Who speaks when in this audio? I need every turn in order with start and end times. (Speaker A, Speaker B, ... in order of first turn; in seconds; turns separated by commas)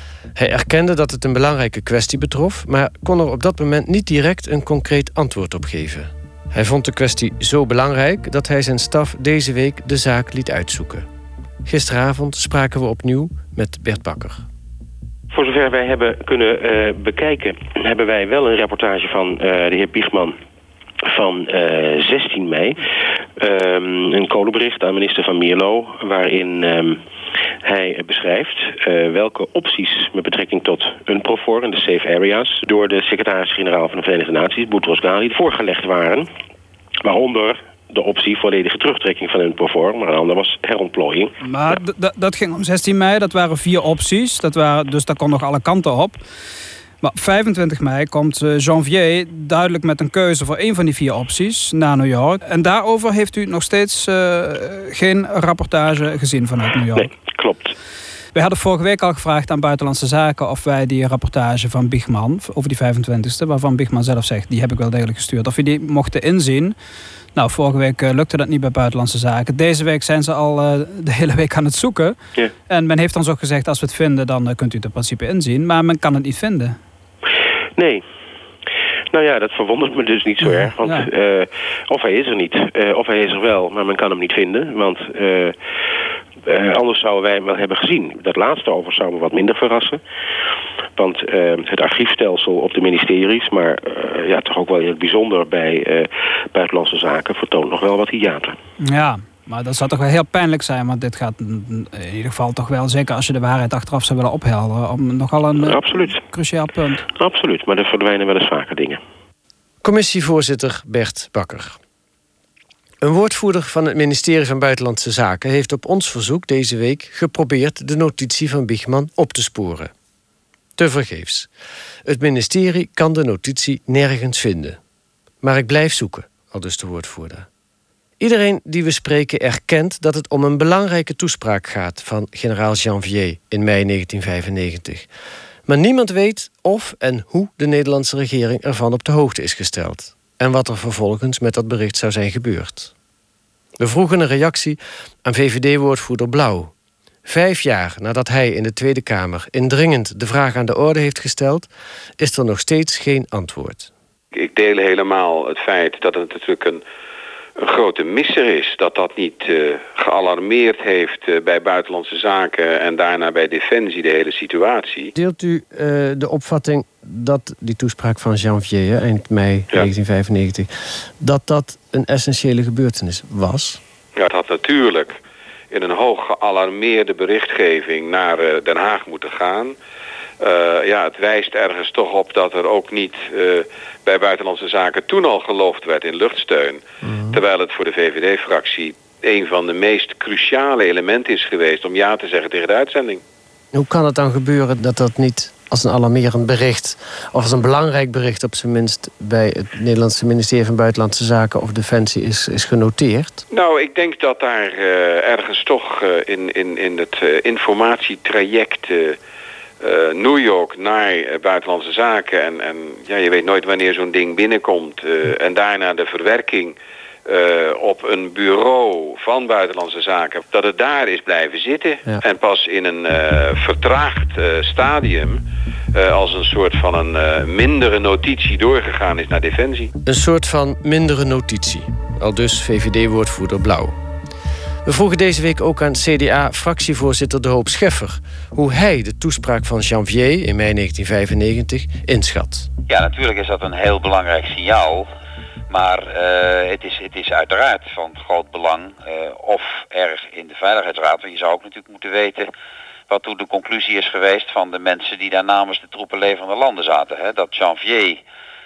Speaker A: 0.3-11.1, Speaker A: 11.6-14.4, Speaker B: 15.3-20.4, Speaker B: 21.1-22.8, Speaker B: 23.4-27.0, Speaker B: 27.6-36.3, Speaker B: 37.0-41.3, Speaker C: 41.4-46.2, Speaker C: 47.0-57.1, Speaker B: 56.9-57.7, Speaker C: 58.3-66.8, Speaker C: 67.3-72.2, Speaker C: 72.7-76.8, Speaker B: 77.8-78.0, Speaker B: 79.1-85.5, Speaker B: 86.5-90.0, Speaker B: 91.0-98.6, Speaker C: 98.8-107.0, Speaker B: 105.6-106.2, Speaker B: 107.1-109.0, Speaker A: 109.8-111.8, Speaker A: 113.0-119.9, Speaker A: 120.8-121.5, Speaker A: 122.0-124.8, Speaker A: 125.4-127.5, Speaker A: 128.2-135.1, Speaker A: 135.7-142.9, Speaker A: 143.8-146.7, Speaker A: 147.2-153.9, Speaker D: 154.3-156.8, Speaker D: 157.6-165.1, Speaker A: 165.2-170.7, Speaker A: 171.2-173.8, Speaker D: 174.2-175.2, Speaker D: 175.7-179.8, Speaker D: 180.4-193.2, Speaker A: 187.0-187.4, Speaker A: 193.7-203.4, Speaker D: 203.5-209.2, Speaker D: 209.8-225.4, Speaker D: 225.9-229.9, Speaker A: 230.0-234.0, Speaker A: 234.8-242.7, Speaker E: 242.9-245.1, Speaker E: 245.7-252.5, Speaker E: 253.1-258.2